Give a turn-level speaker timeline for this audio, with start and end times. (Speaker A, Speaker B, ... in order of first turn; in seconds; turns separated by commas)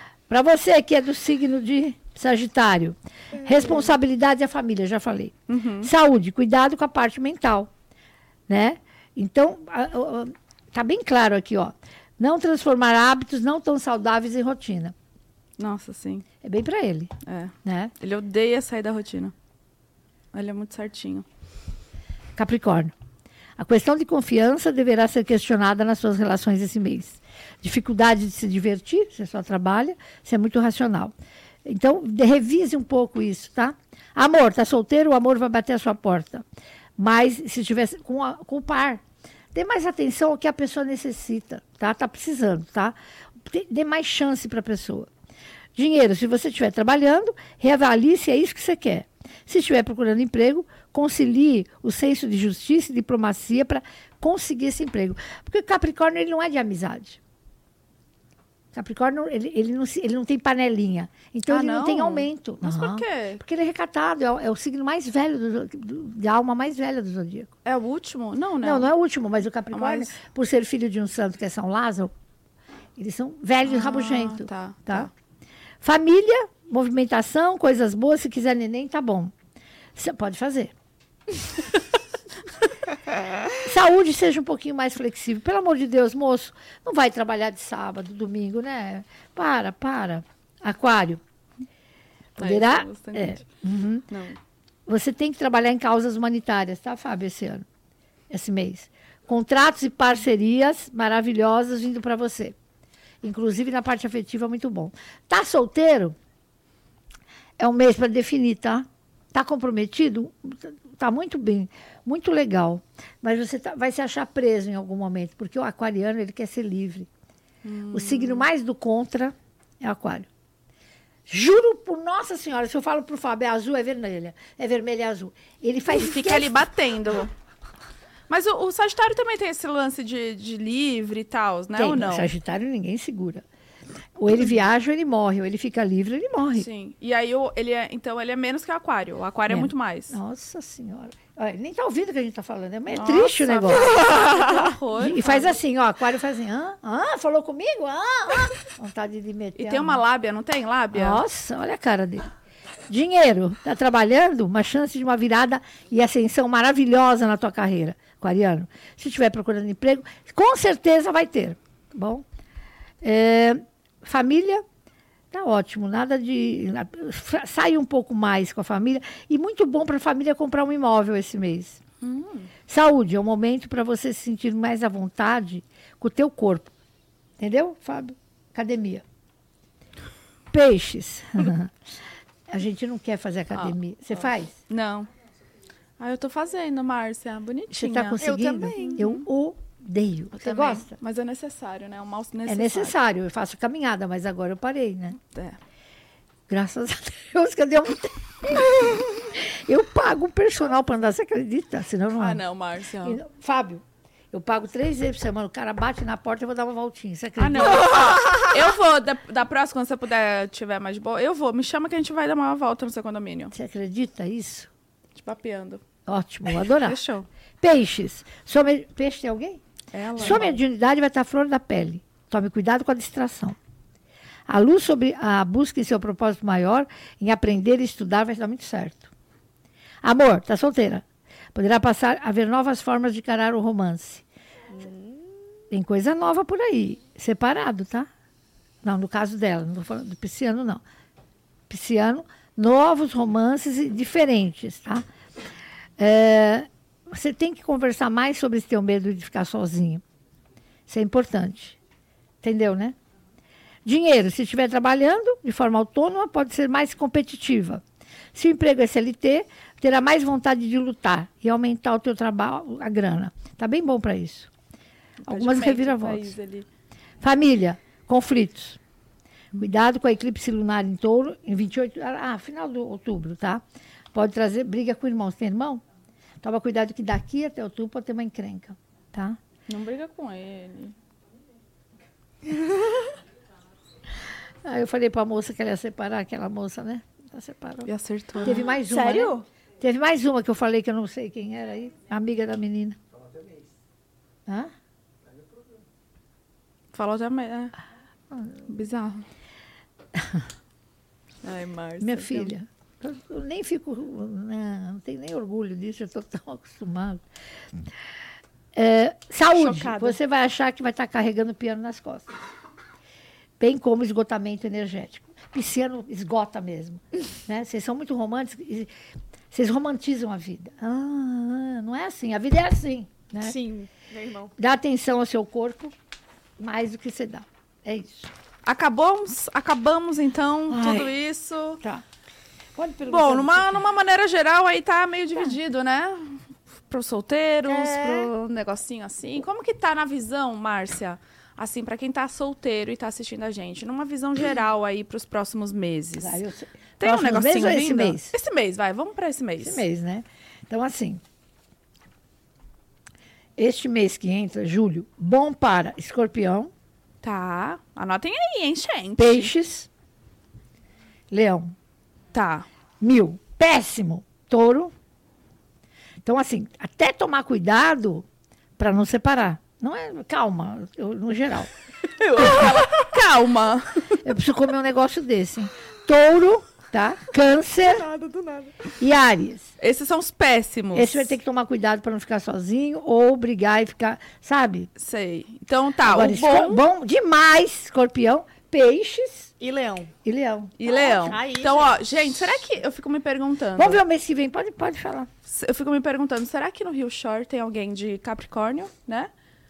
Speaker A: 0.3-7.7, Speaker B: 5.5-5.9, Speaker A: 8.5-14.9, Speaker B: 15.6-16.2, Speaker A: 16.4-17.1, Speaker B: 17.3-19.3, Speaker A: 17.6-17.9, Speaker B: 20.3-21.2, Speaker A: 22.4-22.9, Speaker A: 23.6-31.1, Speaker A: 31.6-36.4, Speaker A: 37.0-39.0, Speaker A: 39.5-45.1, Speaker A: 45.8-57.2, Speaker A: 58.7-67.5, Speaker B: 61.5-63.4, Speaker B: 67.7-68.9, Speaker A: 68.6-72.1, Speaker B: 69.7-70.2, Speaker A: 73.0-75.1, Speaker B: 73.6-75.1, Speaker A: 75.8-79.3, Speaker A: 80.0-80.7, Speaker A: 83.6-91.2, Speaker A: 92.4-94.1, Speaker B: 92.4-93.5, Speaker B: 94.1-94.4, Speaker A: 94.9-97.7, Speaker A: 98.3-102.6, Speaker A: 103.2-106.2, Speaker A: 107.6-117.1, Speaker B: 117.6-118.5, Speaker A: 117.9-120.3, Speaker A: 121.3-126.6, Speaker B: 125.9-127.3, Speaker B: 128.3-132.3, Speaker A: 131.8-133.4, Speaker A: 134.2-136.7, Speaker B: 136.5-140.2, Speaker A: 139.5-144.3, Speaker B: 142.9-145.5, Speaker A: 145.0-150.0, Speaker B: 149.6-151.2, Speaker A: 150.9-152.3, Speaker A: 152.9-162.2, Speaker A: 163.0-164.6, Speaker A: 165.3-171.8, Speaker B: 172.0-172.5, Speaker A: 172.7-176.7, Speaker A: 177.4-179.0, Speaker A: 180.5-181.7, Speaker A: 182.5-184.6, Speaker B: 184.7-185.1, Speaker B: 186.0-188.2, Speaker A: 187.7-191.0, Speaker C: 188.2-189.0, Speaker B: 188.8-189.2, Speaker B: 190.3-192.9, Speaker A: 192.5-195.2, Speaker B: 195.3-195.6, Speaker A: 196.5-202.4, Speaker B: 202.2-203.2, Speaker A: 203.0-208.2, Speaker B: 207.4-213.5, Speaker A: 213.5-214.7, Speaker B: 215.2-215.8, Speaker A: 216.1-217.0, Speaker B: 216.8-217.3, Speaker A: 217.6-219.6, Speaker B: 219.9-220.6, Speaker A: 220.2-223.6, Speaker A: 224.5-229.1, Speaker A: 230.0-234.2, Speaker C: 234.7-235.2, Speaker A: 235.7-238.1, Speaker A: 238.8-240.8, Speaker A: 241.7-245.1, Speaker A: 246.0-250.0, Speaker A: 250.9-251.8, Speaker A: 252.4-253.0, Speaker A: 253.8-257.8, Speaker A: 258.3-264.5, Speaker B: 265.2-266.7, Speaker A: 265.3-266.4, Speaker A: 267.2-268.8, Speaker A: 269.6-275.8, Speaker A: 276.4-279.4, Speaker B: 279.7-280.9, Speaker A: 284.6-287.9, Speaker B: 287.9-288.6, Speaker A: 288.4-293.0, Speaker C: 288.8-289.4, Speaker A: 294.5-294.7, Speaker B: 296.9-297.7, Speaker A: 298.3-298.6, Speaker B: 298.7-299.2, Speaker A: 300.1-300.4, Speaker B: 301.4-302.5, Speaker A: 302.0-307.2, Speaker A: 308.7-312.3, Speaker B: 309.5-310.2, Speaker A: 313.6-318.9, Speaker A: 319.5-323.6, Speaker C: 323.4-324.5, Speaker A: 324.6-325.9, Speaker A: 326.6-328.3, Speaker B: 328.6-331.8, Speaker A: 330.7-331.2, Speaker A: 332.8-333.8, Speaker B: 333.1-346.4, Speaker A: 337.7-338.3, Speaker A: 346.2-348.3, Speaker B: 347.0-349.8, Speaker A: 349.6-351.2, Speaker A: 353.6-356.7, Speaker B: 357.2-359.5, Speaker A: 359.2-359.9, Speaker A: 361.3-361.7, Speaker B: 362.3-362.7, Speaker A: 363.0-364.9, Speaker A: 366.2-368.3, Speaker A: 368.8-371.7, Speaker B: 372.1-374.2, Speaker A: 372.4-372.7, Speaker A: 374.2-378.1, Speaker C: 377.8-378.7, Speaker A: 379.0-379.7, Speaker B: 379.8-381.3, Speaker A: 380.9-384.9, Speaker B: 385.0-386.8, Speaker A: 386.0-389.5, Speaker C: 389.6-390.1, Speaker A: 390.2-390.7, Speaker B: 390.8-394.0, Speaker C: 390.8-392.0, Speaker A: 393.8-395.3, Speaker B: 395.5-399.3